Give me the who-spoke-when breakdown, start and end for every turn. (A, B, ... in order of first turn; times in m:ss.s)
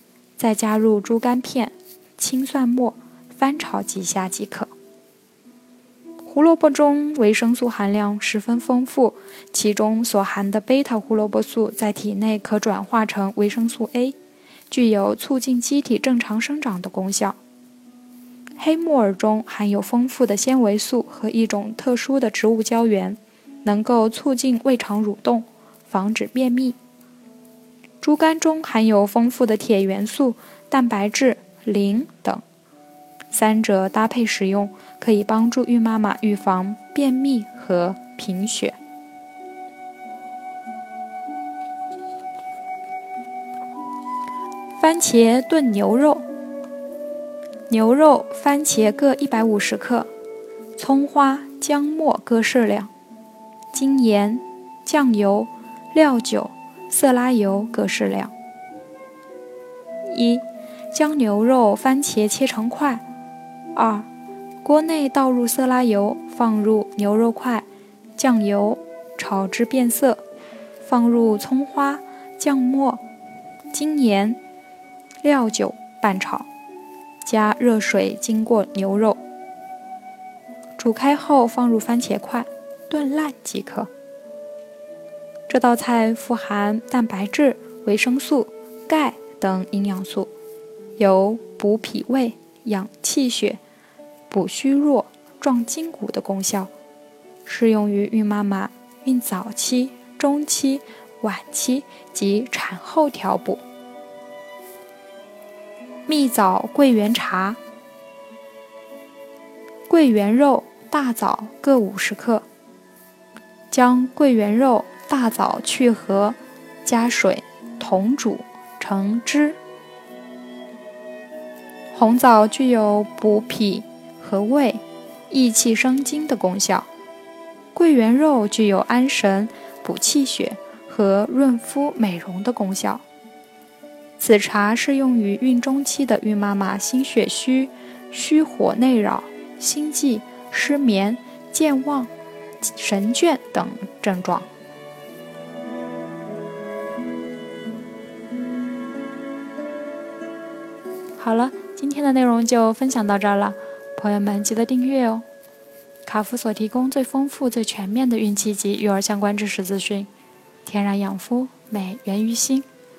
0:00.4-0:04.7 A
0:06.2-0:14.2 A
0:14.7-0:17.4 A
0:18.6-0:26.8 A
0:28.0-0:32.4 A
0:33.3-0:38.8 A
0:44.8-0:46.2 A
0:47.7-0:50.1 A
0:50.8-0:52.9 A
0:53.7-0:58.3 A
1:00.1-1:03.0 A
1:03.7-1:04.1 A
1:04.6-1:07.6 A
1:08.2-1:10.2 A
1:10.8-1:13.0 A
1:13.7-1:14.4 A
1:15.2-1:16.5 A
1:17.2-1:19.2 A
1:20.8-1:23.9 A
1:25.5-1:30.3 A
1:31.0-1:33.6 A
1:34.3-1:36.7 A
1:37.5-1:43.6 A
1:46.1-1:47.6 A
1:49.9-1:52.4 A
1:53.7-1:59.6 A
2:01.9-2:06.9 A
2:07.7-2:13.0 A
2:14.2-2:22.1 A
2:22.6-2:24.5 A
2:31.2-2:35.2 A
2:36.0-2:40.1 A
2:40.6-2:42.7 A